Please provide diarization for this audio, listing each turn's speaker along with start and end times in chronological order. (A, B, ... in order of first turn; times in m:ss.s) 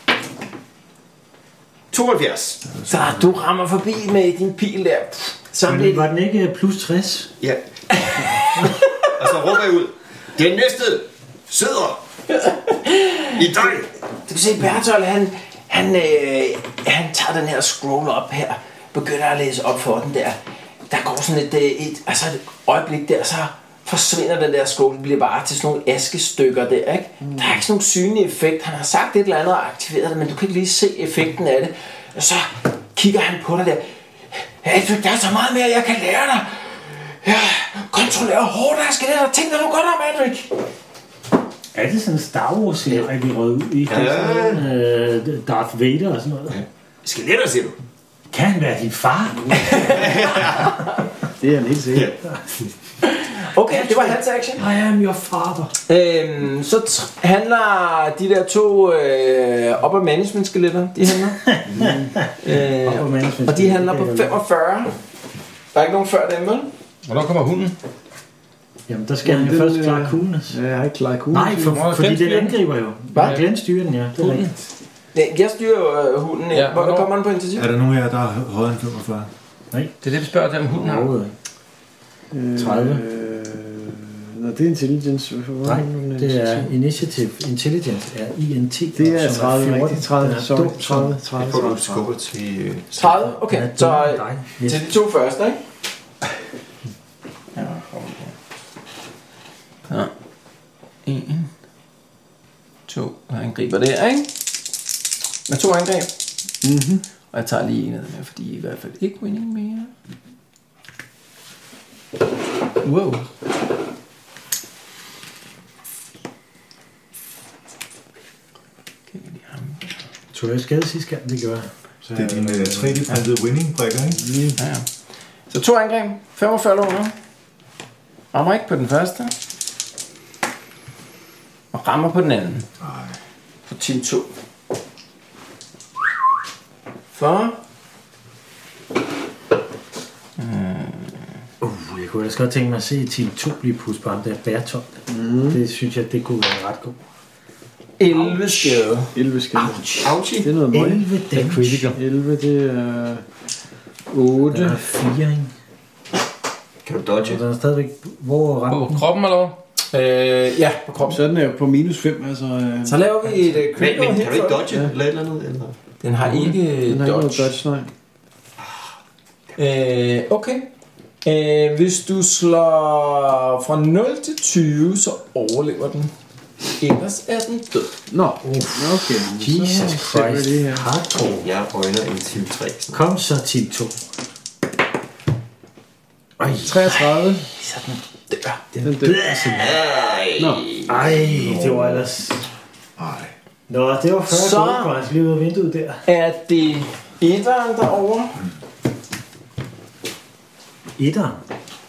0:01.9-0:02.6 A
0:02.7-0:03.5 B
0:02.9-0:06.1 C
0:05.6-0:07.3 D
0:07.4-0:12.0 A
0:12.3-0:13.4 C
0:13.4-0:13.9 A
0:14.3-0:20.4 C
0:20.9-0:40.5 C
0:27.2-0:27.6 E
0:41.7-0:46.6 D
0:43.9-0:44.6 A
0:46.5-0:47.8 A
0:48.3-0:50.0 D
0:49.7-0:50.1 C
0:49.9-0:50.7 A
0:51.4-0:52.1 E
0:51.9-0:52.7 A
0:53.0-0:54.6 C
0:53.7-0:55.8 D
0:55.9-1:01.4 C
1:01.4-1:04.4 D
1:02.4-1:05.0 C
1:05.7-1:06.7 C
1:07.1-1:07.8 F
1:08.9-1:10.6 D
1:09.2-1:11.8 E
1:11.3-1:14.5 D
1:11.8-1:12.6 F
1:13.1-1:13.4 C
1:14.2-1:14.5 F
1:15.1-1:17.7 C
1:16.5-1:17.1 F
1:17.6-1:19.3 B
1:20.0-1:21.1 F
1:20.7-1:21.3 D
1:22.3-1:26.7 E
1:22.6-1:23.0 D
1:25.6-1:31.6 D
1:29.0-1:32.1 E
1:31.4-1:33.1 A
1:32.9-1:35.6 C
1:33.3-1:34.8 D
1:37.5-1:38.3 C
1:39.9-1:40.1 C
1:41.0-1:41.5 C
1:42.9-1:44.3 C
1:45.5-1:46.1 C
1:46.6-1:47.0 E
1:47.3-1:49.9 C
1:52.8-1:53.2 C
1:59.1-1:59.8 C
2:00.3-2:01.7 D
2:02.0-2:03.0 E
2:02.1-2:04.3 B
2:04.2-2:04.6 E
2:04.6-2:04.9 C
2:05.5-2:07.1 C
2:08.3-2:09.3 C
2:11.7-2:12.7 C
2:12.8-2:13.1 B
2:13.7-2:14.3 C
2:17.1-2:17.6 C
2:20.4-2:21.2 C
2:21.6-2:27.0 D
2:25.1-2:25.6 E
2:28.0-2:29.1 C
2:28.1-2:33.2 E
2:29.6-2:30.5 A
2:30.7-2:32.0 D
2:34.1-2:34.8 E
2:34.5-2:35.5 D
2:36.8-2:37.4 A
2:37.2-2:39.0 D
2:38.7-2:39.6 F
2:39.9-2:41.2 C
2:41.0-2:43.0 E
2:42.8-2:44.7 C
2:43.8-2:45.7 A
2:46.0-2:47.5 C
2:46.2-2:46.5 F
2:46.8-2:47.9 E
2:49.6-2:50.7 C
2:51.2-2:56.1 C
2:56.8-2:57.9 C
2:58.1-3:00.9 E
2:58.4-3:01.5 D
3:01.4-3:03.0 A
3:02.9-3:04.0 D
3:06.4-3:06.7 D
3:06.5-3:07.5 E
3:06.8-3:08.7 C
3:08.8-3:09.8 D
3:08.8-3:09.3 E
3:09.6-3:10.9 A
3:10.4-3:10.7 E
3:10.9-3:12.5 D
3:11.1-3:12.1 B
3:13.0-3:13.3 B
3:13.7-3:16.0 D
3:14.3-3:15.0 C
3:16.1-3:18.4 C
3:21.0-3:21.4 D